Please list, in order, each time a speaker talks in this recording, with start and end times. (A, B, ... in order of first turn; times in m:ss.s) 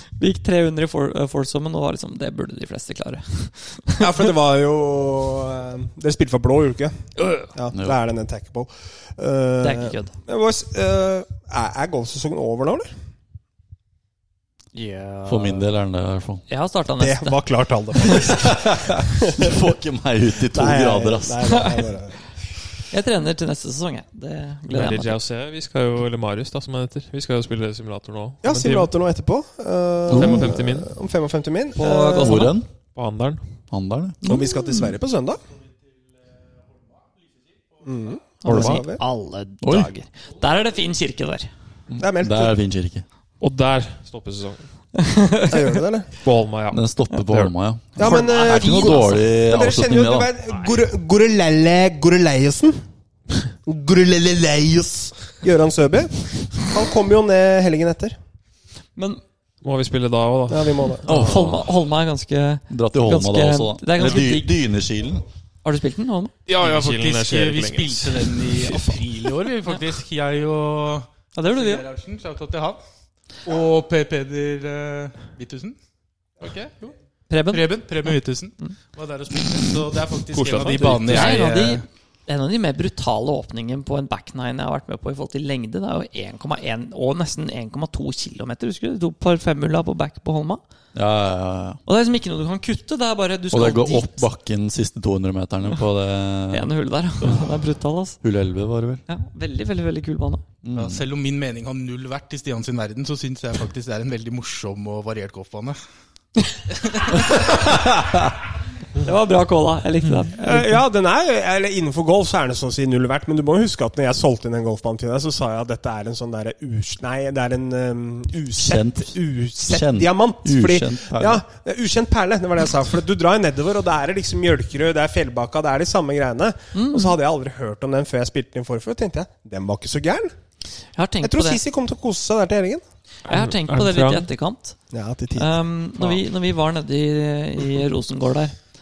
0:00.2-0:04.1 A
0:04.0-0:12.9 B
0:07.2-0:07.5 A
0:07.7-0:08.0 C
0:09.6-0:10.1 A
0:14.7-0:15.6 D
0:15.2-0:16.4 C
0:16.5-0:18.3 A
0:17.0-0:19.6 B
0:18.4-0:21.6 C
0:20.5-0:22.3 B
0:21.4-0:21.7 A
0:22.9-0:25.2 A
0:24.7-0:28.9 D
0:28.4-0:32.5 B
0:30.1-0:30.6 C
0:30.1-0:30.9 D
0:31.8-0:32.5 A
0:31.8-0:32.7 C
0:32.8-0:33.4 D
0:33.7-0:34.2 C
0:34.2-0:35.0 A
0:34.2-0:35.4 B
0:37.8-0:39.0 B
0:38.4-0:41.5 A
0:38.5-0:38.8 D
0:39.6-0:39.9 C
0:41.9-0:43.0 C
0:42.0-0:42.5 B
0:43.4-0:44.7 D
0:44.9-0:45.8 A
0:45.5-0:46.1 B
0:46.2-0:47.5 D
0:46.7-0:50.3 C
0:48.0-0:52.8 B
0:48.0-0:49.2 A
0:53.6-0:58.2 B
0:59.6-1:01.3 D
1:00.5-1:01.0 B
1:01.0-1:01.7 C
1:01.0-1:04.5 A
1:02.7-1:05.2 C
1:05.6-1:06.3 A
1:06.5-1:08.9 D
1:06.5-1:12.8 E
1:11.3-1:11.8 A
1:13.4-1:15.8 E
1:16.4-1:16.9 E
1:17.3-1:18.7 A
1:17.5-1:21.8 E
1:20.3-1:21.4 D
1:21.1-1:30.6 A
1:30.9-1:31.8 C
1:31.8-1:34.2 A
1:33.5-1:36.7 C
1:36.5-1:38.2 A
1:38.2-1:39.0 C
1:39.1-1:40.4 A
1:40.6-1:41.0 C
1:40.7-1:45.8 E
1:47.1-1:47.5 A
1:49.0-1:50.8 A
1:50.4-2:10.3 B
1:58.6-2:01.4 C
2:06.7-2:07.2 A
2:11.0-2:11.6 A
2:11.2-2:12.8 B
2:13.3-2:14.3 D
2:13.3-2:14.8 A
2:14.9-2:15.6 B
2:15.3-2:18.5 A